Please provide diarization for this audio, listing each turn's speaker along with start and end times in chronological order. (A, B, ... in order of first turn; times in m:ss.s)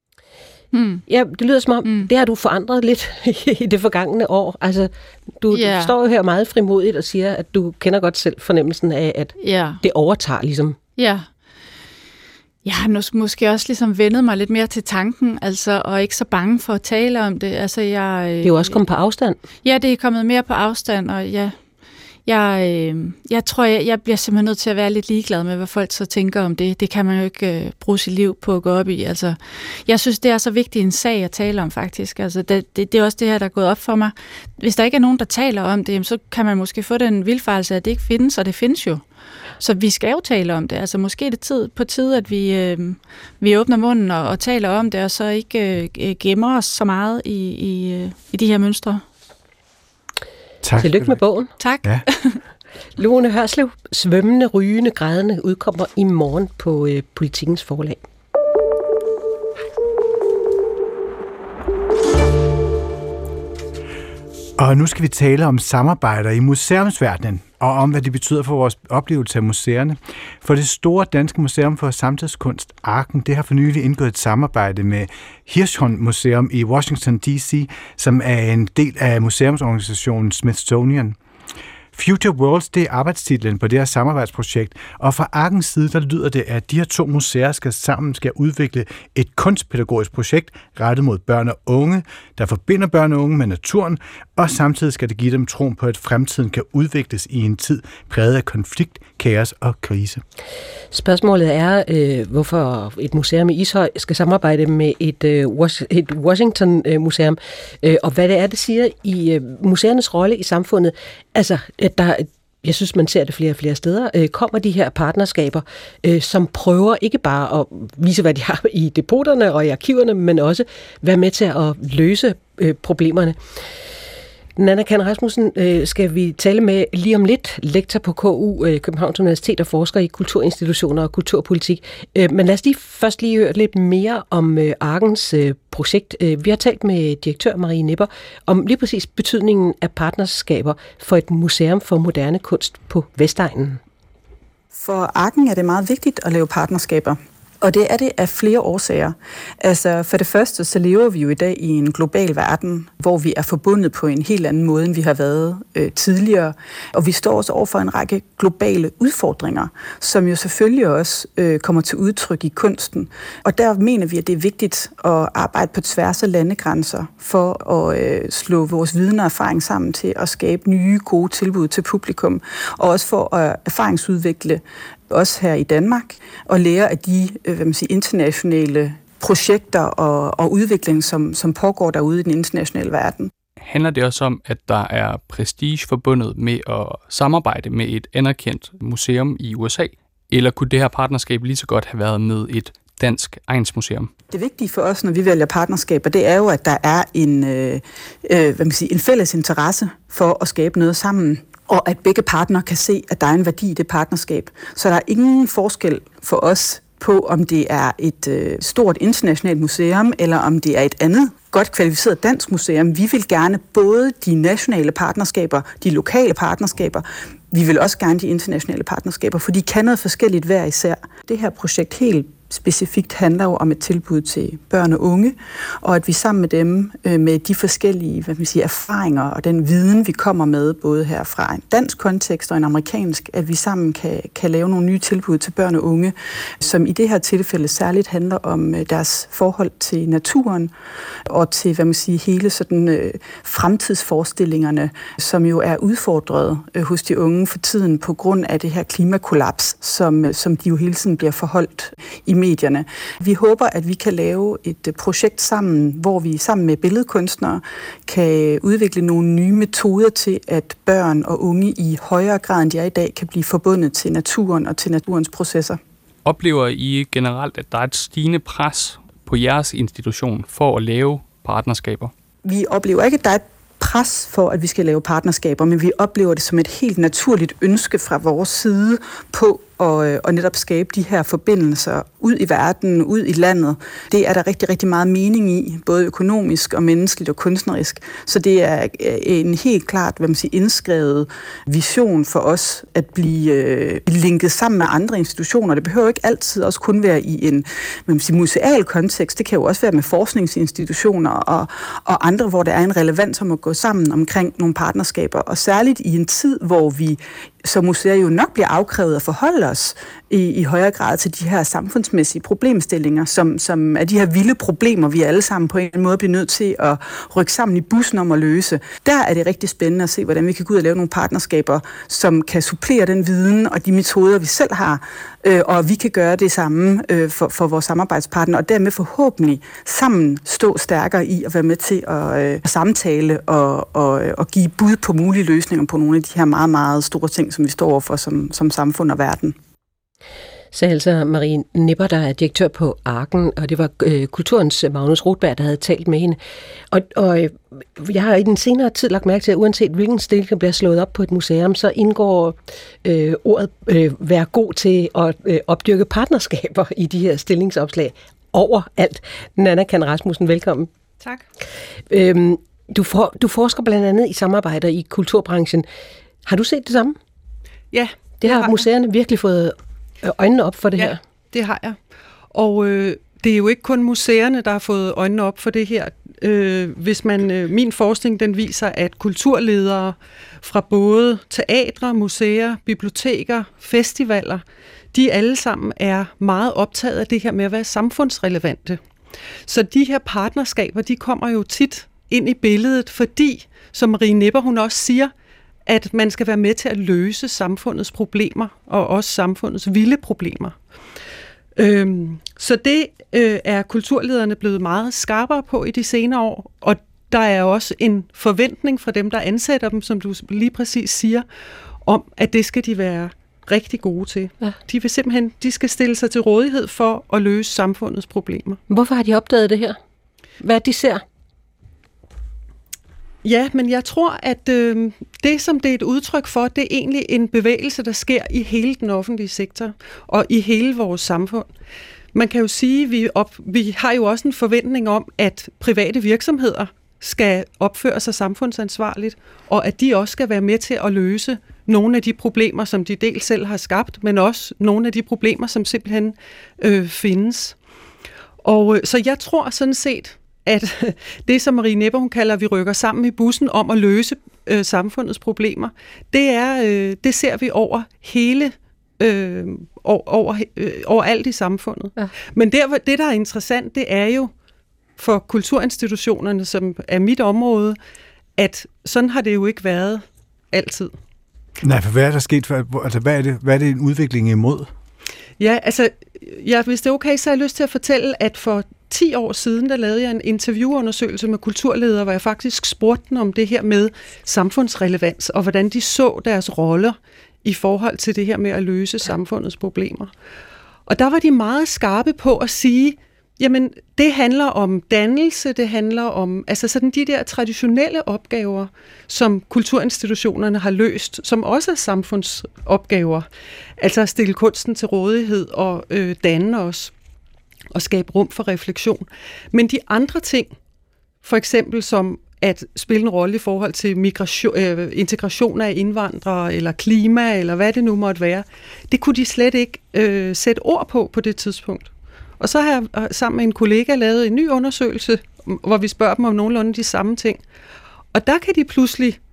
0:00.7-0:01.0 A
0:01.1-0:10.8 B
0:01.8-0:02.1 A
0:05.5-0:05.9 A
0:09.4-0:09.8 A
0:11.0-0:11.3 A
0:12.6-0:18.8 A
0:18.4-0:19.4 B
0:19.6-0:21.6 A
0:22.3-0:39.0 A
0:39.6-0:49.0 A
0:50.6-0:51.2 C
0:50.8-0:51.5 B
0:51.6-0:52.4 A
0:53.0-0:58.0 B
1:04.6-1:21.2 C
1:21.9-1:40.2 C
1:40.9-2:03.4 B
2:04.6-2:23.8 B
2:24.7-3:03.3 D
3:03.6-3:14.1 E
3:14.3-4:00.7 D
4:01.3-4:25.8 D
4:26.2-4:32.1 E
4:32.4-5:39.6 D
5:40.7-5:46.4 B
5:46.9-6:00.9 B
6:02.1-6:05.9 B
6:06.5-6:07.2 B
6:07.9-6:08.9 F
6:08.4-6:11.2 B
6:11.0-6:12.0 F
6:12.5-6:29.0 F
6:29.7-6:35.3 F
6:35.9-6:40.8 F
6:41.8-6:51.4 F
6:52.0-6:58.8 F
6:58.9-7:00.0 B
7:00.6-7:01.2 B
7:03.4-7:11.7 F
7:12.3-7:27.8 F
7:28.6-7:44.5 F
7:45.2-7:48.0 F
7:48.6-7:51.1 F
7:51.8-7:54.9 C
7:55.6-8:10.3 F
8:11.1-8:23.5 F
8:24.0-8:27.1 F
8:27.9-8:30.7 F
8:31.4-8:47.6 F
8:48.3-8:49.4 F